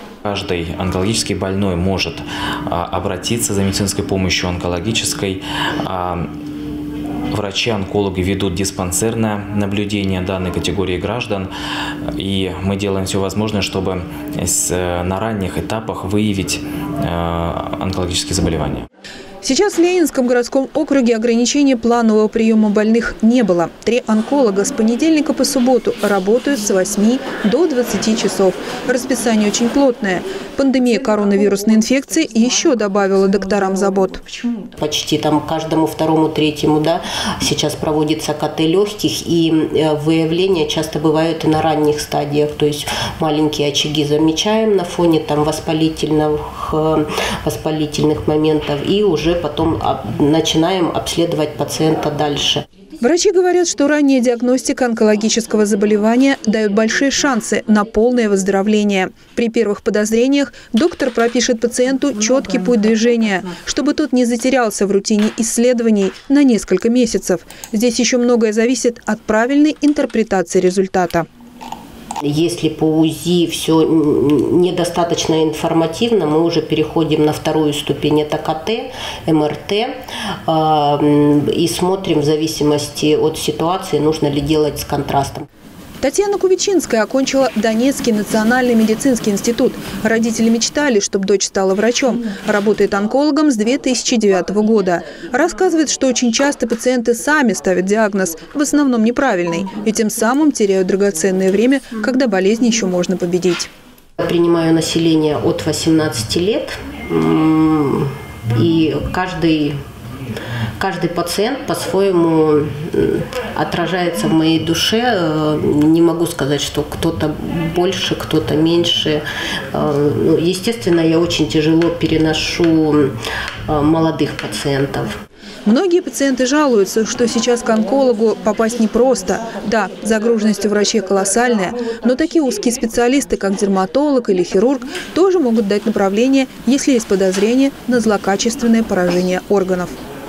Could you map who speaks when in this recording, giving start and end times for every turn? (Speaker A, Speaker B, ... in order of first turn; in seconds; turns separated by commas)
Speaker A: 0.3-6.3, Speaker A: 7.3-11.5, Speaker A: 12.2-18.9, Speaker B: 19.4-34.2, Speaker C: 34.8-52.6, Speaker B: 53.0-71.3, Speaker C: 72.2-79.9, Speaker C: 80.5-85.5, Speaker B: 86.0-103.7, Speaker C: 104.2-109.8, Speaker C: 110.8-123.2, Speaker C: 123.7-125.2, Speaker B: 125.7-139.9